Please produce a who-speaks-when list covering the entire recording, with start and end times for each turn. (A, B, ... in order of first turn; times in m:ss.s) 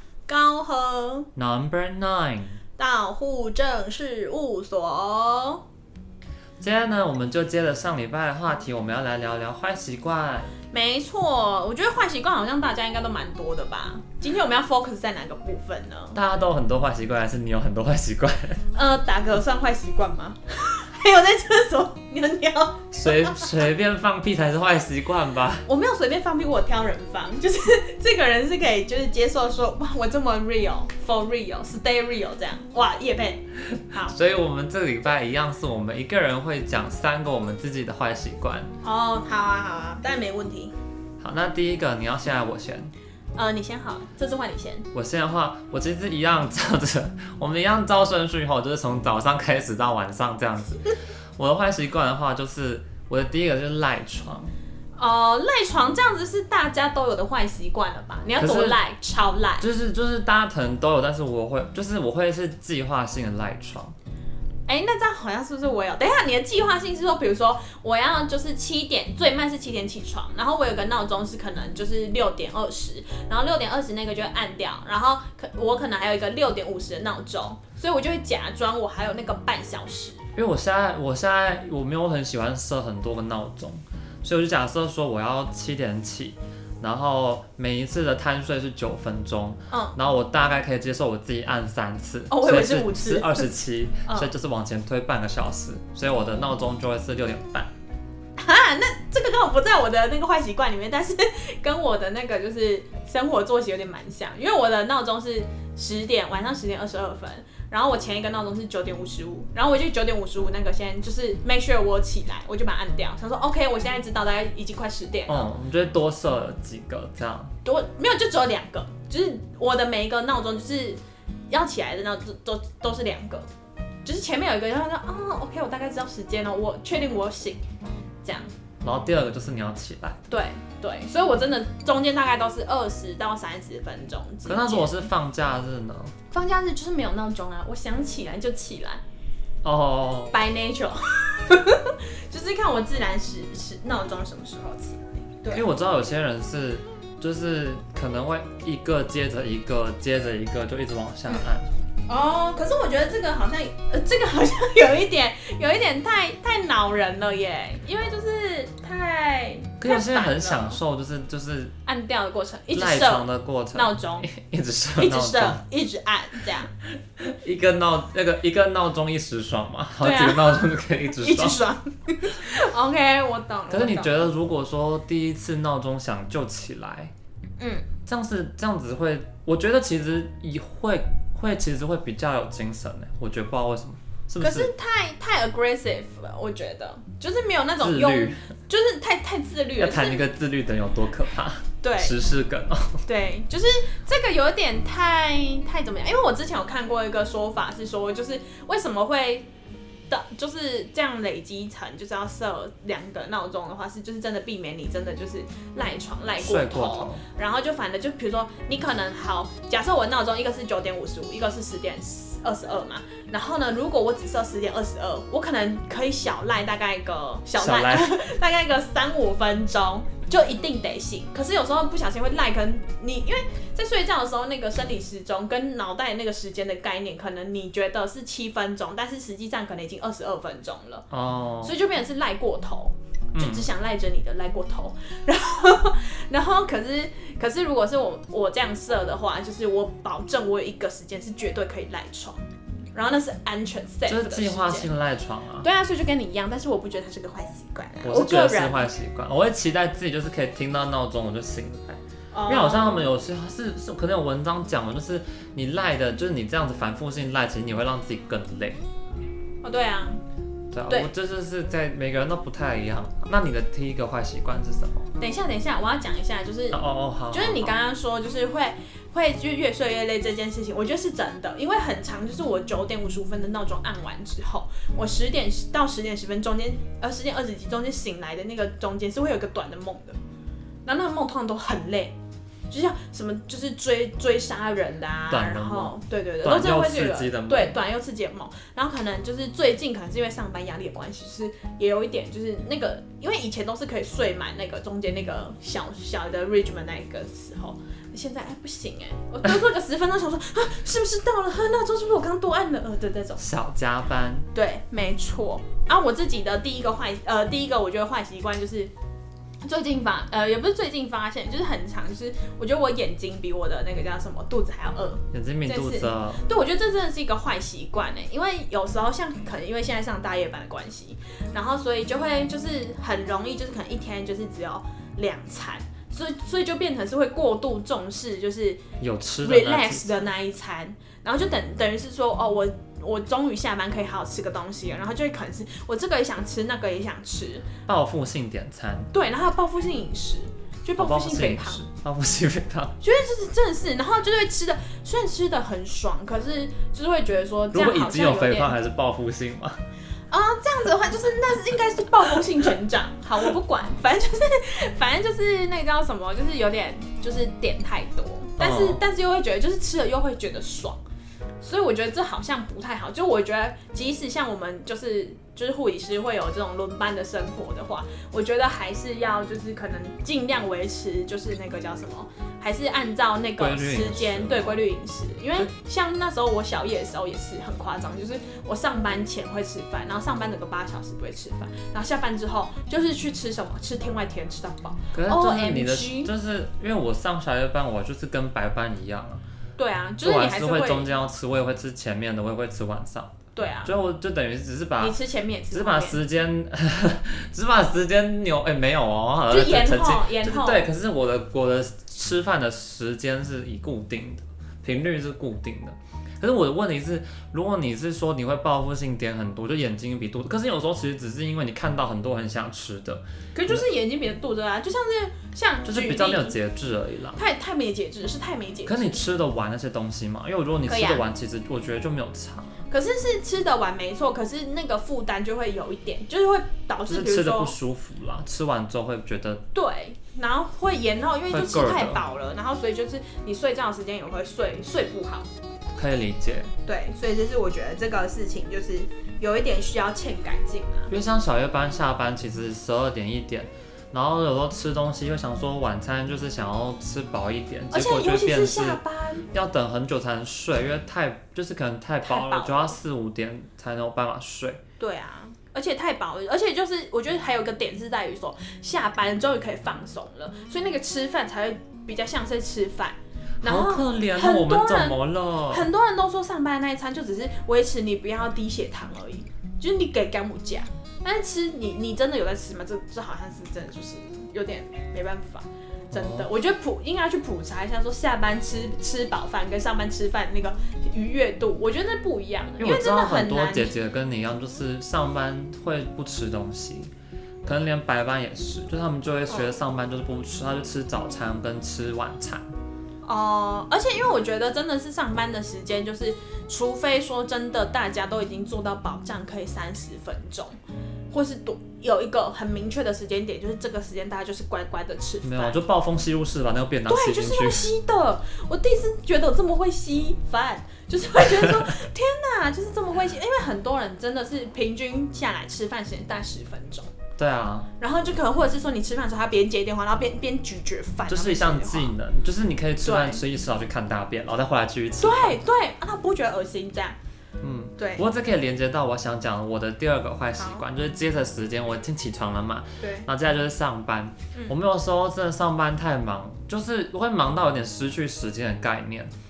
0:00.3-0:01.3 A
0:01.4-0:02.6 B
0:02.8-0:05.6 A
0:06.6-0:10.5 B
0:10.7-0:16.2 A
0:16.1-0:18.6 B
0:18.7-0:23.6 A
0:22.9-0:25.6 B
0:25.6-0:34.1 A
0:34.0-0:38.7 B
0:38.8-0:40.7 A
0:41.2-0:42.9 B
0:43.4-0:44.9 A
0:44.9-0:54.5 B
0:55.0-0:59.6 A
0:58.4-0:58.8 B
0:59.6-1:03.9 B
1:04.7-1:20.2 A
1:20.3-1:37.7 B
1:29.7-1:30.0 A
1:32.3-1:33.5 A
1:34.0-1:34.3 A
1:38.4-1:55.5 A
1:55.3-1:57.5 B
1:57.6-2:03.5 A
2:04.0-2:07.6 A
2:08.2-2:08.5 A
2:08.8-2:10.2 B
2:10.3-2:15.0 A
2:14.4-2:16.1 B
2:16.3-2:19.0 A
2:19.6-2:20.3 B
2:20.3-2:25.7 A
2:25.5-2:31.7 B
2:32.1-2:40.8 A
2:39.8-2:41.7 B
2:41.8-2:44.3 A
2:42.7-2:45.6 B
2:45.0-2:46.7 A
2:46.8-2:51.6 B
2:50.0-2:54.2 A
2:53.7-2:57.1 B
2:57.6-2:57.9 A
2:58.0-3:04.7 B
3:04.4-3:10.2 A
3:07.8-3:08.5 B
3:09.8-3:13.0 B
3:11.8-3:12.2 A
3:13.0-3:19.5 A
3:20.1-3:51.1 A
3:26.4-3:27.2 B
3:37.6-3:38.2 B
3:51.1-3:51.7 B
3:51.6-4:04.9 A
3:53.3-3:53.7 B
4:04.0-4:05.7 B
4:05.6-4:08.9 A
4:08.0-4:18.8 B
4:12.3-4:13.1 A
4:19.6-4:20.2 A
4:20.7-4:25.1 B
4:25.2-4:40.2 A
4:26.7-4:27.7 B
4:40.8-4:42.2 A
4:42.7-5:03.4 A
4:45.3-4:47.8 B
5:03.4-5:04.5 B
5:04.5-5:08.9 A
5:09.6-5:28.8 A
5:15.3-5:16.4 B
5:29.0-5:30.2 B
5:29.4-5:37.7 A
5:37.9-5:39.1 B
5:39.1-5:41.8 A
5:41.0-5:43.0 B
5:43.0-5:48.7 A
5:47.7-5:49.8 B
5:50.3-6:01.0 A
5:58.6-5:59.0 B
6:01.6-6:26.3 A
6:13.6-6:14.8 B
6:25.1-6:29.4 B
6:29.8-6:31.1 A
6:30.2-6:35.2 B
6:33.5-6:33.9 A
6:35.0-6:36.2 A
6:35.7-6:53.8 B
6:39.5-6:40.9 A
6:53.5-6:56.6 A
6:55.8-6:57.4 B
6:57.4-6:59.2 A
6:58.8-7:02.7 B
7:00.8-7:01.2 A
7:02.9-7:07.8 A
7:07.0-7:09.6 B
7:09.7-7:15.5 A
7:11.5-7:12.2 B
7:15.9-7:16.7 B
7:16.8-7:21.2 A
7:21.1-7:29.0 B
7:27.9-7:29.5 A
7:29.5-7:34.8 B
7:32.2-7:33.0 A
7:35.0-8:03.9 A
7:43.6-7:45.9 B
7:56.1-7:56.5 B
8:02.8-8:07.1 B
8:07.6-8:12.6 B
8:13.2-8:20.8 A
8:21.3-8:25.8 A
8:25.4-8:27.9 B
8:27.1-8:37.1 A
8:37.4-8:37.9 B
8:38.0-8:42.1 A
8:41.2-8:45.6 B
8:43.0-8:43.4 A
8:45.2-8:47.2 A
8:47.6-8:59.3 B
8:48.0-8:48.2 A
8:50.6-8:50.8 A
8:53.0-8:53.3 A